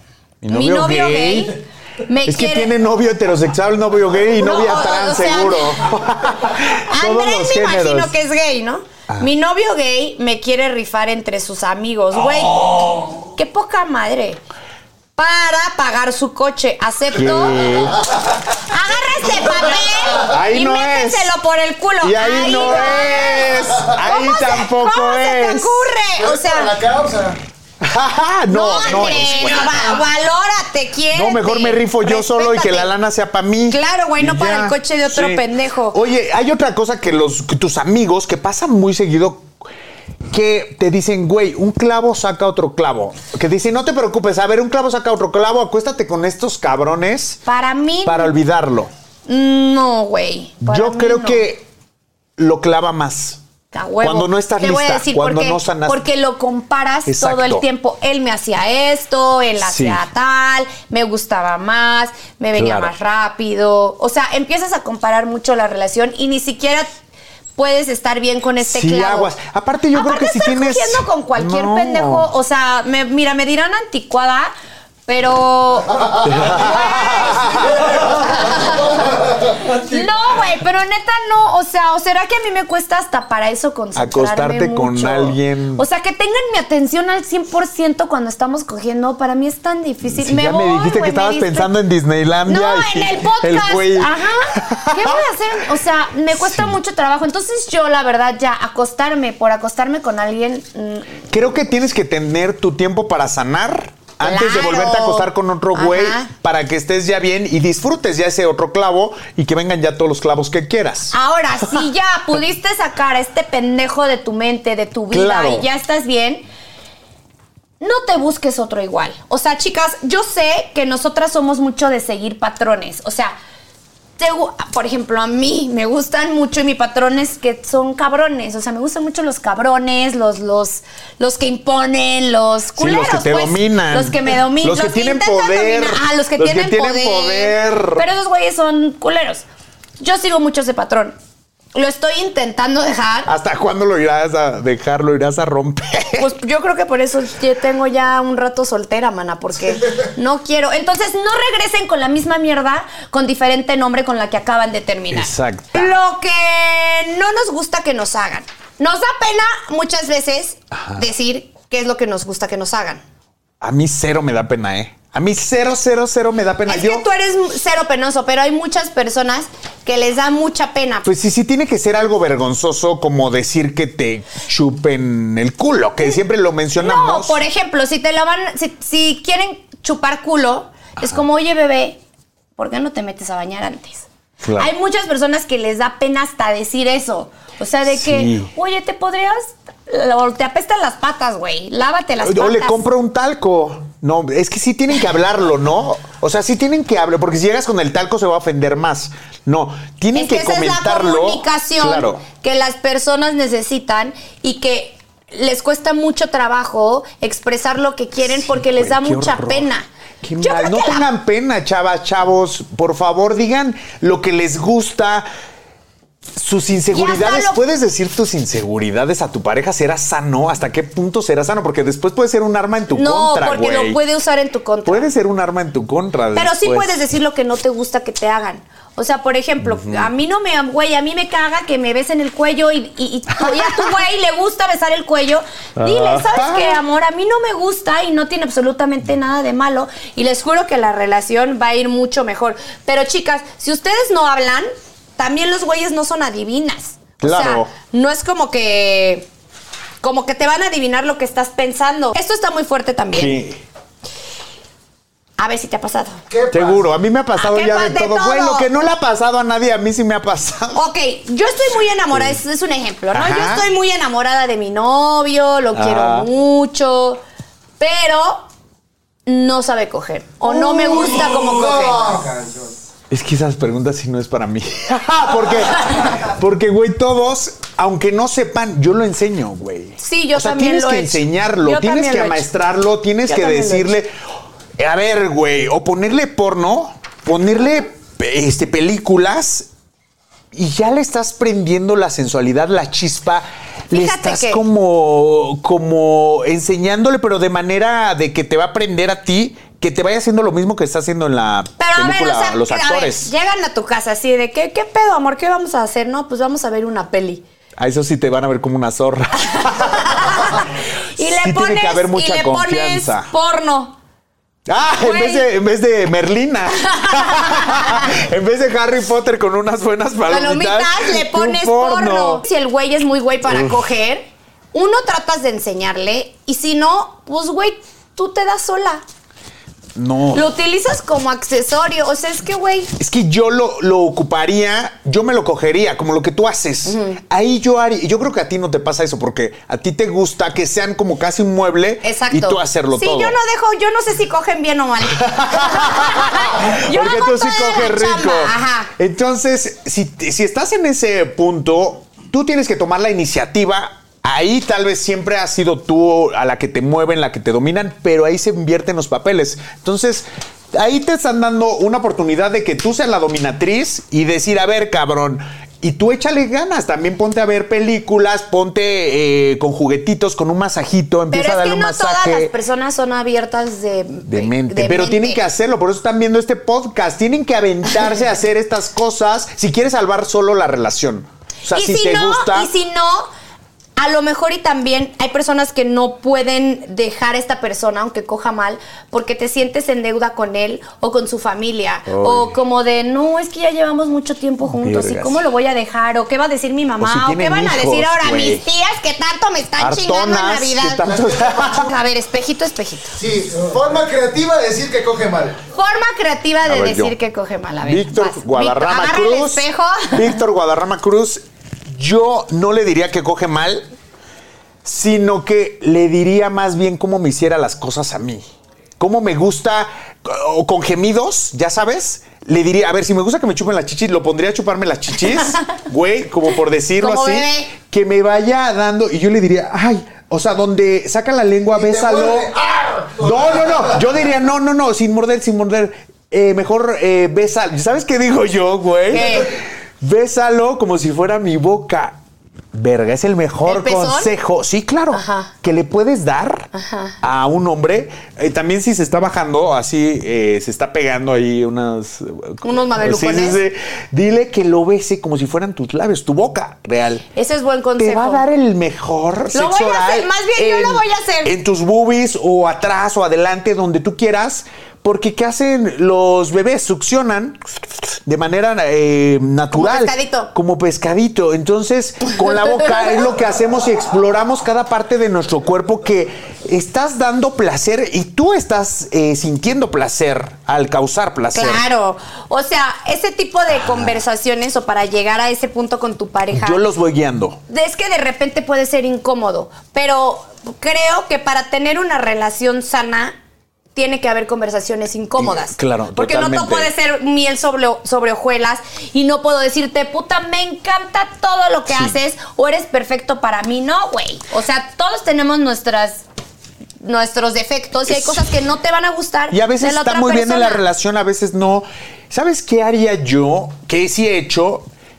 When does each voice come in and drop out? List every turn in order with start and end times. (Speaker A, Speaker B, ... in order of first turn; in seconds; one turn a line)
Speaker A: 0.4-1.6
Speaker B: 0.5-2.7
Speaker A: 2.2-8.1
Speaker B: 4.3-5.7
Speaker B: 6.9-14.4
Speaker B: 15.2-17.7
Speaker A: 17.1-18.0
Speaker B: 18.6-26.7
Speaker A: 20.2-21.3
Speaker A: 22.0-25.9
Speaker C: 26.2-27.4
Speaker A: 27.8-29.9
Speaker B: 28.5-32.9
Speaker A: 31.1-39.5
Speaker B: 33.7-36.0
Speaker A: 40.3-47.4
Speaker B: 47.5-48.3
Speaker A: 48.0-48.9
Speaker B: 49.2-51.4
Speaker A: 50.6-51.6
Speaker A: 52.4-53.4
Speaker B: 53.7-66.9
Speaker A: 54.0-56.0
Speaker A: 57.0-57.6
Speaker A: 59.6-60.0
Speaker A: 62.5-62.9
Speaker B: 67.6-69.3
Speaker A: 68.6-72.3
Speaker B: 69.9-74.5
Speaker B: 75.1-91.7
Speaker A: 76.2-77.7
Speaker A: 83.9-85.8
Speaker A: 90.2-95.3
Speaker B: 92.5-101.2
Speaker A: 96.3-96.8
Speaker A: 101.3-111.1
Speaker B: 104.2-106.3
Speaker B: 111.1-116.4
Speaker A: 115.1-115.7
Speaker B: 117.8-123.3
Speaker B: 124.2-139.4
Speaker A: 132.8-138.1
Speaker B: 140.0-141.2
Speaker B: 141.7-143.3
Speaker A: 143.3-146.3
Speaker B: 146.2-163.0
Speaker A: 155.1-155.9
Speaker A: 160.7-161.0
Speaker A: 163.6-167.1
Speaker B: 166.7-171.1
Speaker A: 171.0-177.4
Speaker B: 176.8-182.0
Speaker B: 182.6-192.8
Speaker A: 184.4-184.7
Speaker A: 187.9-188.5
Speaker A: 192.2-202.2
Speaker B: 200.1-209.9
Speaker A: 208.3-209.7
Speaker A: 210.2-215.3
Speaker B: 210.4-211.1
Speaker A: 216.3-224.0
Speaker B: 216.9-217.6
Speaker B: 222.9-225.1
Speaker A: 224.8-227.0
Speaker B: 226.3-249.3
Speaker A: 229.6-230.1
Speaker A: 233.4-233.7
Speaker A: 235.8-236.8
Speaker A: 247.2-247.7
Speaker B: 250.0-253.3
Speaker A: 253.1-253.6
Speaker B: 255.4-256.2
Speaker C: 256.3-256.9
Speaker A: 256.5-260.8
Speaker B: 257.4-258.7
Speaker B: 260.7-267.2
Speaker A: 262.1-262.4
Speaker A: 263.1-263.7
Speaker A: 265.7-266.3
Speaker B: 267.8-268.5
Speaker B: 269.2-272.2
Speaker A: 270.4-271.4
Speaker C: 270.7-272.7
Speaker A: 273.1-284.1
Speaker B: 280.0-282.5
Speaker B: 283.2-283.9
Speaker A: 284.8-289.7
Speaker A: 290.5-303.3
Speaker B: 293.9-294.6
Speaker B: 301.8-307.4
Speaker A: 307.8-310.7
Speaker B: 309.7-314.0
Speaker A: 311.2-313.3
Speaker A: 314.7-322.4
Speaker B: 315.0-315.5
Speaker B: 316.9-318.1
Speaker B: 320.3-329.0
Speaker A: 323.5-323.8
Speaker A: 329.9-330.4
Speaker B: 330.3-332.9
Speaker A: 333.0-343.4
Speaker B: 336.9-337.2
Speaker B: 342.0-348.9
Speaker A: 345.1-372.5
Speaker B: 371.3-375.4
Speaker A: 374.2-382.7
Speaker B: 381.7-383.3
Speaker B: 384.0-403.1
Speaker A: 392.1-392.5
Speaker A: 394.6-395.4
Speaker A: 397.0-398.6
Speaker A: 399.8-401.8
Speaker C: 401.0-401.8
Speaker C: 403.2-405.6
Speaker B: 405.7-410.4
Speaker A: 406.6-407.1
Speaker A: 407.8-413.9
Speaker A: 414.8-418.4
Speaker A: 419.0-432.5
Speaker B: 427.0-427.7
Speaker C: 431.7-434.0
Speaker A: 433.2-442.2
Speaker B: 439.1-439.5
Speaker A: 442.7-446.7
Speaker B: 443.6-444.3
Speaker B: 445.1-445.5
Speaker B: 446.7-447.2
Speaker A: 447.2-457.2
Speaker B: 452.6-453.6
Speaker B: 457.4-458.4
Speaker A: 458.0-467.6
Speaker B: 459.5-461.5
Speaker A: 468.2-481.8
Speaker B: 469.7-470.5
Speaker B: 472.4-473.3
Speaker B: 481.5-486.8
Speaker A: 486.5-487.6
Speaker B: 487.7-493.4
Speaker B: 493.9-506.2
Speaker A: 495.4-496.9
Speaker A: 501.9-502.1
Speaker B: 507.0-510.9
Speaker A: 508.1-508.4
Speaker A: 509.5-514.9